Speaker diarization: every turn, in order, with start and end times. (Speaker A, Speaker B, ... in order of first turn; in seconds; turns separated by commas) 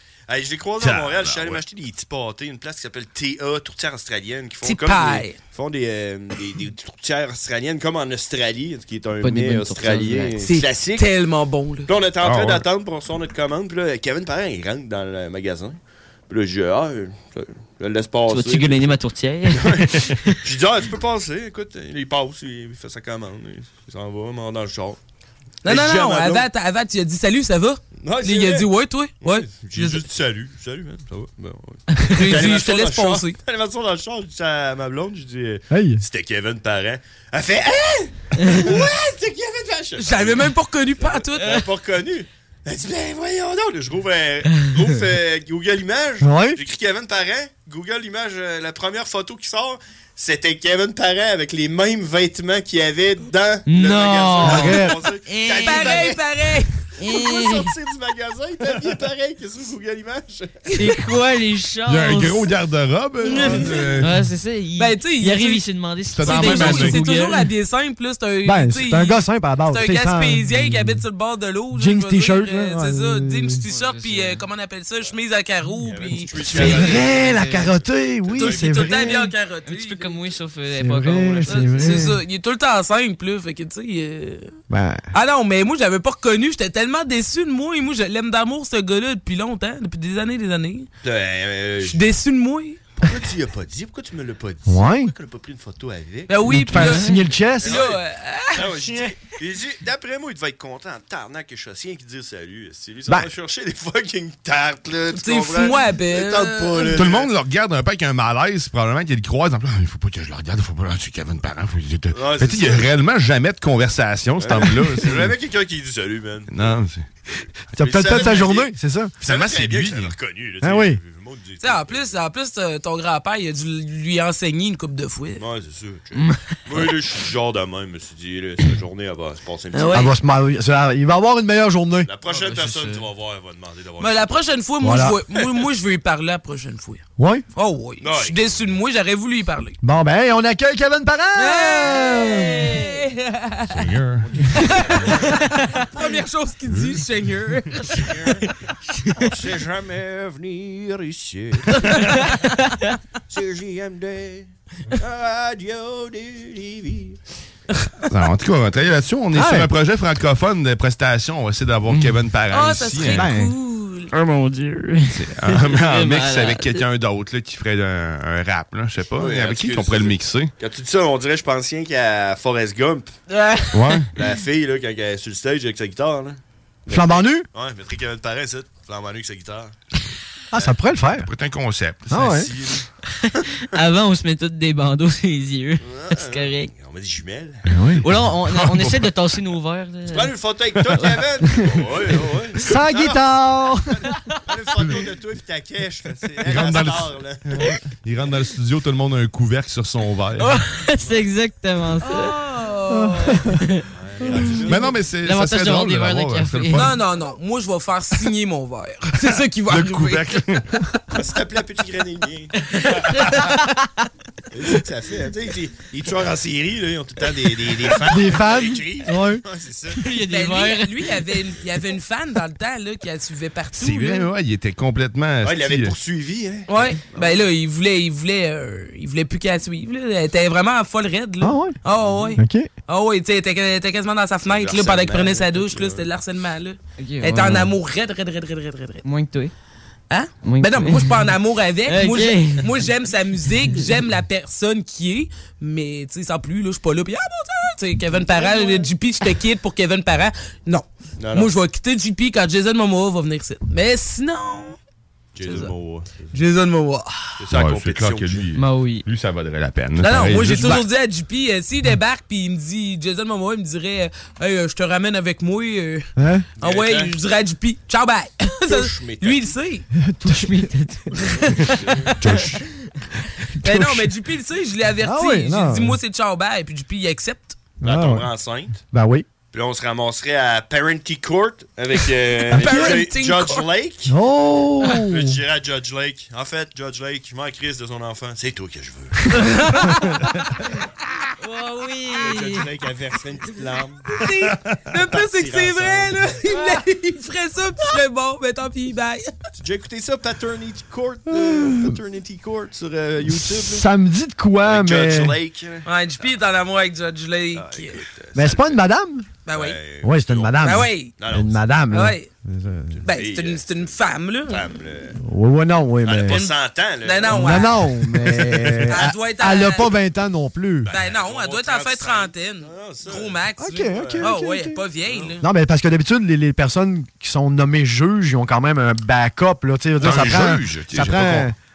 Speaker A: 0.3-11.1, Speaker B: 0.8-1.6, Speaker C: 4.6-5.4, Speaker D: 9.2-10.4, Speaker C: 10.4-11.9, Speaker A: 11.9-19.0, Speaker B: 12.2-12.7, Speaker D: 18.3-20.4, Speaker A: 19.5-25.0, Speaker C: 25.6-30.0, Speaker A: 25.6-26.5, Speaker A: 27.9-56.2, Speaker C: 32.1-33.4, Speaker E: 35.7-36.0, Speaker C: 40.0-41.6, Speaker E: 46.2-46.6, Speaker D: 53.7-56.1, Speaker E: 54.4-55.0, Speaker C: 55.6-56.7, Speaker D: 57.0-57.7, Speaker A: 57.1-60.8, Speaker D: 60.7-62.5, Speaker B: 61.9-64.2, Speaker C: 63.3-64.0, Speaker D: 63.3-67.5, Speaker C: 64.8-65.7, Speaker B: 66.1-67.0, Speaker C: 66.2-76.9, Speaker E: 68.5-71.0, Speaker E: 71.7-73.6, Speaker D: 73.7-74.5, Speaker A: 75.8-78.9, Speaker E: 76.4-79.3, Speaker D: 76.6-77.8, Speaker C: 78.4-80.2, Speaker D: 79.7-82.1, Speaker E: 80.8-82.2, Speaker C: 81.5-84.5, Speaker E: 84.7-85.0, Speaker C: 85.1-90.9, Speaker A: 91.0-92.1, Speaker C: 91.8-92.8, Speaker A: 93.0-96.4, Speaker E: 94.7-95.1, Speaker C: 96.3-99.3, Speaker E: 96.5-97.8, Speaker A: 97.6-98.0, Speaker A: 98.5-107.3, Speaker C: 105.1-106.9, Speaker B: 106.9-115.3, Speaker A: 112.1-112.9, Speaker A: 114.4-116.8, Speaker B: 116.5-117.1, Speaker A: 117.7-122.2, Speaker E: 117.7-119.2, Speaker B: 119.2-120.2, Speaker E: 120.6-121.0, Speaker C: 121.6-125.4, Speaker A: 125.4-130.1, Speaker D: 126.2-126.5, Speaker C: 129.8-130.1, Speaker E: 129.9-132.1, Speaker A: 132.0-134.4, Speaker D: 132.3-133.1, Speaker C: 134.0-137.0, Speaker E: 134.8-135.2, Speaker E: 137.2-137.4, Speaker C: 137.6-139.8, Speaker A: 138.0-138.4, Speaker E: 139.8-142.8, Speaker C: 141.4-142.1, Speaker C: 142.7-143.9, Speaker B: 143.7-144.3, Speaker C: 144.9-148.0, Speaker B: 146.7-147.0, Speaker A: 147.9-148.5, Speaker A: 149.2-151.8, Speaker D: 151.8-152.4, Speaker A: 153.3-157.2, Speaker B: 158.1-163.4, Speaker E: 159.3-159.7, Speaker D: 161.9-162.2, Speaker C: 162.5-164.1, Speaker E: 163.1-163.5, Speaker D: 164.1-166.8, Speaker B: 165.1-170.5, Speaker A: 169.2-173.1, Speaker C: 173.3-173.8, Speaker B: 173.7-174.1, Speaker A: 174.2-179.7, Speaker E: 176.9-177.5, Speaker E: 180.5-181.3, Speaker B: 181.2-182.3, Speaker E: 182.1-182.5, Speaker A: 182.2-182.9, Speaker D: 183.2-186.7, Speaker A: 185.8-187.6, Speaker E: 187.7-188.1, Speaker D: 188.0-190.3, Speaker B: 188.2-189.1, Speaker A: 190.1-193.3, Speaker D: 190.9-191.2, Speaker E: 192.6-193.9, Speaker A: 193.9-197.7, Speaker B: 194.8-195.1, Speaker B: 196.4-200.6, Speaker D: 200.4-202.4, Speaker C: 202.0-203.4, Speaker E: 202.9-203.6, Speaker D: 203.6-203.8, Speaker A: 203.9-205.1, Speaker B: 204.7-207.0, Speaker D: 205.2-206.9, Speaker C: 206.8-210.3, Speaker B: 209.2-210.7, Speaker A: 211.2-212.5, Speaker D: 212.8-213.6, Speaker A: 214.5-220.0, Speaker E: 218.1-219.4, Speaker D: 220.0-221.3, Speaker C: 220.1-224.3, Speaker B: 223.7-225.9, Speaker A: 225.4-227.5, Speaker C: 226.7-239.0, Speaker E: 231.4-231.8, Speaker A: 232.0-232.3, Speaker E: 232.4-232.7, Speaker A: 234.4-236.1, Speaker D: 237.0-237.8, Speaker D: 239.0-239.5, Speaker C: 240.1-254.8, Speaker D: 240.4-241.3, Speaker D: 241.9-242.8, Speaker A: 248.2-248.9, Speaker A: 251.2-251.5, Speaker A: 255.4-256.4, Speaker C: 255.4-255.7, Speaker C: 256.3-257.3, Speaker A: 257.4-258.5, Speaker B: 257.5-260.9, Speaker D: 258.6-259.1, Speaker C: 260.0-269.9, Speaker E: 266.2-266.5, Speaker A: 266.6-267.1, Speaker A: 268.7-269.6, Speaker E: 270.0-270.7, Speaker D: 270.2-271.8, Speaker A: 271.8-272.1, Speaker E: 273.6-274.1, Speaker C: 273.6-277.8, Speaker E: 275.0-276.0, Speaker E: 277.8-278.3, Speaker A: 277.8-278.8, Speaker E: 278.8-279.3, Speaker A: 279.5-284.1, Speaker C: 282.5-283.7, Speaker E: 282.5-283.0, Speaker E: 284.1-285.4, Speaker A: 284.9-289.4, Speaker C: 289.4-290.0, Speaker D: 291.4-292.7, Speaker A: 292.2-296.3, Speaker C: 294.1-299.3, Speaker A: 299.6-303.9, Speaker E: 301.3-301.9, Speaker E: 303.3-305.4, Speaker A: 304.6-306.4, Speaker C: 305.9-308.0, Speaker A: 307.5-308.8, Speaker E: 308.4-309.3, Speaker C: 309.5-309.8, Speaker A: 309.5-310.7, Speaker E: 310.0-313.0, Speaker C: 310.6-311.2, Speaker A: 311.2-311.6, Speaker C: 311.9-312.3, Speaker A: 313.0-315.2, Speaker C: 313.0-314.7, Speaker E: 315.2-316.4, Speaker A: 316.0-317.9, Speaker C: 316.2-317.9, Speaker E: 317.3-320.9, Speaker C: 318.9-319.9, Speaker A: 320.9-324.4, Speaker C: 320.9-325.4, Speaker E: 323.6-324.8, Speaker A: 325.0-325.4, Speaker E: 325.4-331.6, Speaker B: 330.0-331.5